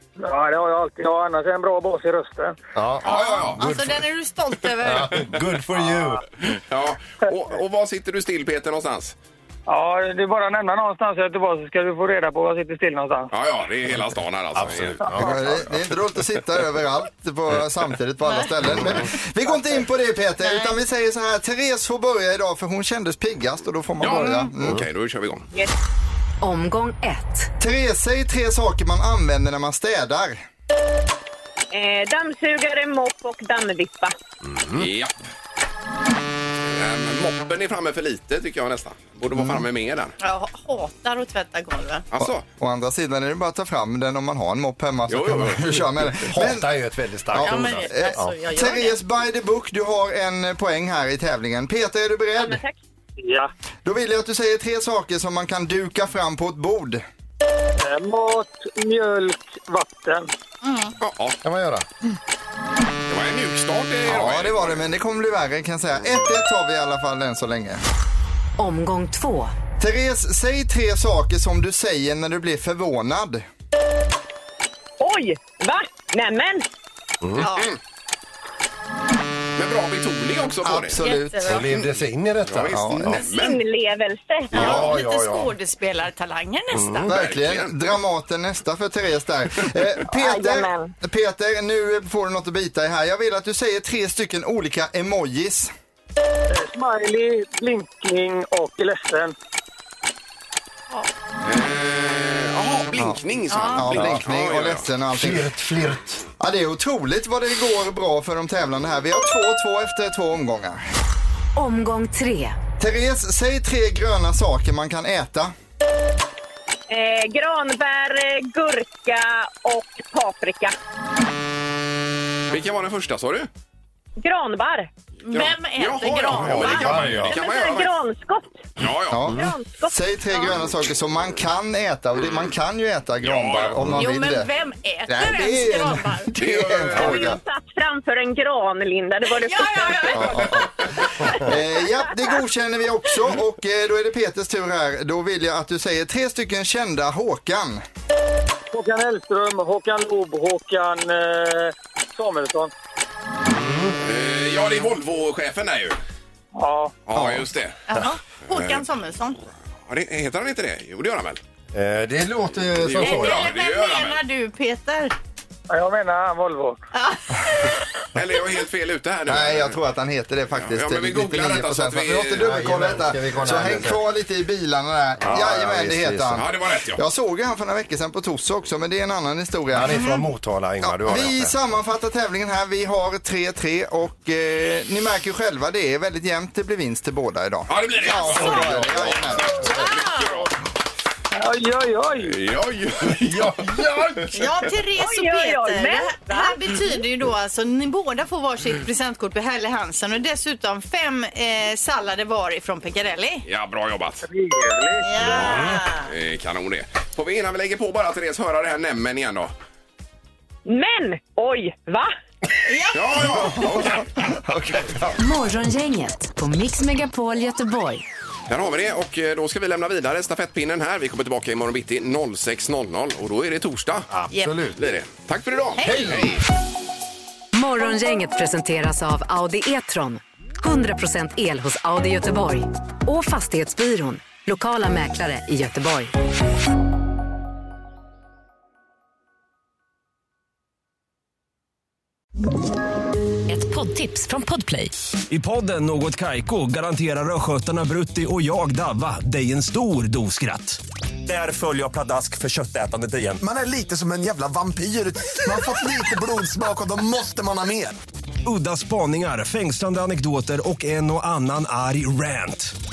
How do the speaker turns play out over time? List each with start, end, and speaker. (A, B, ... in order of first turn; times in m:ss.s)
0:00.2-0:02.6 A
0:02.7-0:04.0 B
0:03.0-0:03.6 C
0:03.0-0:05.3 D
0:04.8-0:06.2 B
0:06.5-0:09.1 C
0:09.7-0:13.3 A
0:13.3-0:15.4 C
0:14.5-0:15.7 B
0:15.1-0:24.8 E
0:18.3-0:19.8 D
0:20.4-0:20.8 D
0:24.0-0:25.5 C
0:24.2-0:24.5 D
0:26.4-0:27.5 F
0:27.6-0:30.4 E
0:31.7-0:34.1 G
0:34.4-0:34.9 B
0:34.8-0:35.1 C
0:36.7-0:40.1 C
0:40.2-0:42.0 D
0:42.1-0:42.4 C
0:42.2-0:46.7 E
0:45.1-0:45.9 C
0:46.2-0:48.3 B
0:47.3-0:52.6 E
0:47.4-0:49.0 D
0:52.4-0:52.8 G
0:53.2-0:53.5 A
0:53.8-0:57.0 E
0:57.8-1:00.3 A
1:00.6-1:00.9 D
1:01.0-1:01.4 C
1:01.4-1:01.8 B
1:03.1-1:04.9 C
1:04.1-1:07.8 E
1:08.6-1:09.5 F
1:09.8-1:13.4 E
1:15.0-1:16.6 G
1:17.2-1:17.5 B
1:17.4-1:17.7 D
1:17.4-1:17.8 C
1:19.6-1:21.0 C
1:20.6-1:21.7 E
1:21.0-1:21.6 D
1:21.4-1:23.2 B
1:21.7-1:23.6 C
1:22.7-1:23.2 E
1:23.2-1:24.8 G
1:24.5-1:25.5 B
1:24.5-1:27.1 D
1:26.8-1:27.1 B
1:27.1-1:35.7 E
1:27.1-1:27.8 C
1:30.1-1:30.9 G
1:36.5-1:39.4 A
1:41.4-1:44.9 C
1:42.9-1:43.2 E
1:43.5-1:43.9 D
1:43.7-1:45.5 E
1:43.9-1:44.2 B
1:45.1-1:46.2 B
1:46.4-1:50.8 E
1:51.6-1:52.6 F
1:52.8-1:55.5 E
1:56.9-2:00.8 G
2:02.5-2:03.5 C
2:04.2-2:04.9 G
2:05.2-2:07.2 D
2:05.3-2:08.0 C
2:06.3-2:07.4 B
2:07.3-2:08.6 G
2:08.8-2:09.3 C
2:09.1-2:14.5 E
2:09.4-2:09.9 G
2:13.2-2:14.0 C
2:13.9-2:16.3 D
2:15.1-2:17.4 E
2:16.4-2:17.4 C
2:17.0-2:20.5 G
2:19.2-2:20.7 D
2:20.1-2:27.8 E
2:28.7-2:32.7 A
2:33.4-2:33.9 B
2:34.0-2:36.0 C
2:36.5-2:36.9 A
2:37.1-2:37.8 C
2:37.2-2:37.4 E
2:37.9-2:39.4 D
2:39.9-2:41.4 C
2:41.7-2:43.5 B
2:42.8-2:44.2 C
2:43.0-2:45.1 D
2:45.7-2:46.8 A
2:46.9-2:47.3 D
2:48.1-2:49.8 C
2:49.3-3:00.1 E
2:50.6-2:52.6 C
2:52.4-2:54.0 B
2:55.2-2:56.4 B
2:56.4-2:57.0 C
2:59.7-3:01.5 B
3:00.8-3:09.9 E
3:07.7-3:10.5 C
3:08.5-3:08.8 B
3:11.3-3:12.4 A
3:12.2-3:14.3 C
3:13.4-3:14.2 B
3:14.3-3:23.4 D
3:15.0-3:16.6 G
3:23.4-3:24.2 C
3:24.2-3:25.2 A
3:25.0-3:26.1 D
3:25.4-3:29.5 C
3:30.6-3:32.1 G
3:32.7-3:33.6 D
3:32.9-3:34.1 C
3:34.4-3:35.1 E
3:35.2-3:38.0 F
3:38.5-3:44.1 C
3:44.1-3:44.8 B
3:44.3-3:44.6 D
3:44.8-3:46.4 C
3:45.8-3:46.2 D
3:45.8-3:46.2 B
3:47.5-3:56.1 F
4:03.5-4:05.0 F
4:05.3-4:13.4 H
4:13.4-4:18.0 I
4:18.4-4:22.7 H